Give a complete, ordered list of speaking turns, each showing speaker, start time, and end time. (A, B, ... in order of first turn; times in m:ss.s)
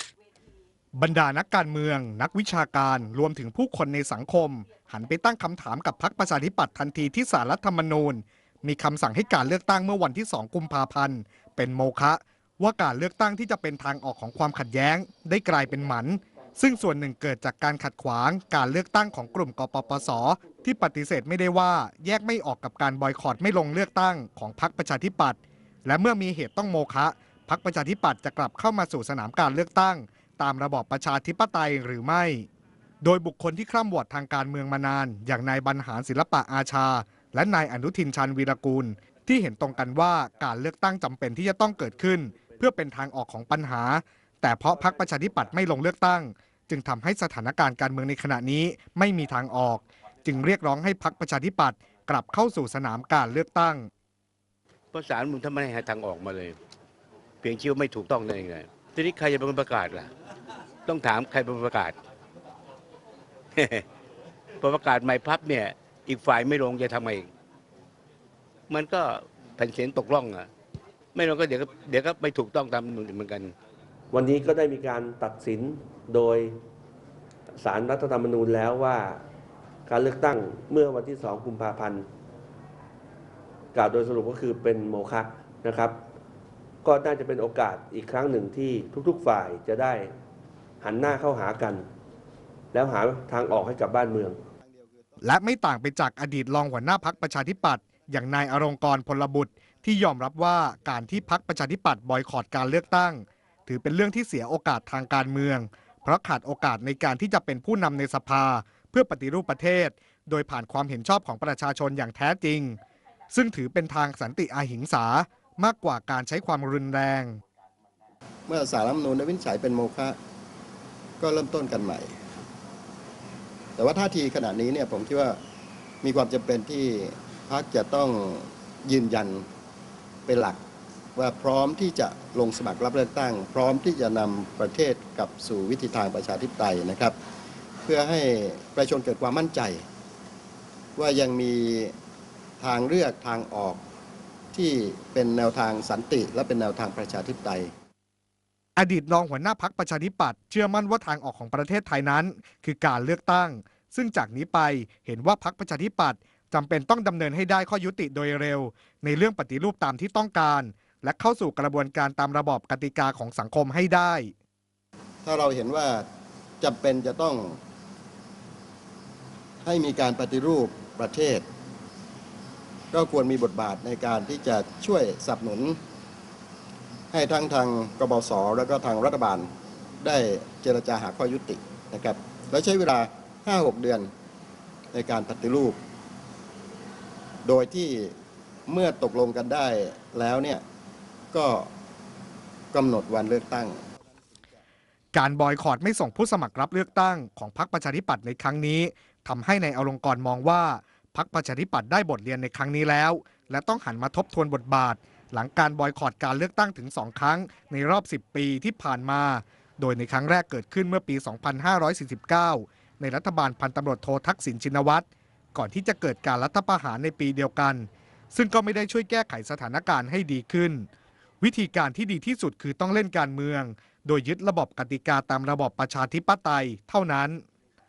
0:01.0-0:32.4 A
0:33.0-0:53.9 A
0:54.9-0:56.6 B
0:57.4-1:00.1 B
1:00.8-1:02.0 B
1:03.6-1:03.8 B
1:04.6-1:07.3 B
1:08.7-1:10.5 B
1:11.1-1:13.5 B
1:14.1-1:16.6 C
1:17.6-1:19.2 C
1:19.9-1:22.1 C
1:23.7-1:26.0 C
1:26.8-1:30.1 C
1:30.8-1:31.8 C
1:32.7-1:34.4 C
1:34.6-1:35.1 D
1:35.2-1:52.8 A
1:53.3-1:57.4 A
1:58.5-2:00.2 D
2:01.2-2:02.2 D
2:03.8-2:05.4 D
2:06.0-2:09.5 D
2:10.2-2:10.6 D
2:11.2-2:17.2 D
2:17.8-2:19.8 D
2:21.0-2:21.9 D
2:22.6-2:23.8 D
2:24.5-2:27.7 D
2:28.8-2:44.3 A
2:45.2-2:46.1 D
2:46.6-2:47.6 D
2:49.6-2:51.4 D
2:52.9-2:55.8 D
2:57.1-2:59.5 D
3:00.0-3:04.1 D
3:04.9-3:05.8 D
3:07.4-3:08.1 D
3:08.7-3:10.6 D
3:11.3-3:11.7 D
3:12.7-3:13.8 D
3:15.1-3:40.9 A
3:41.4-3:47.4 A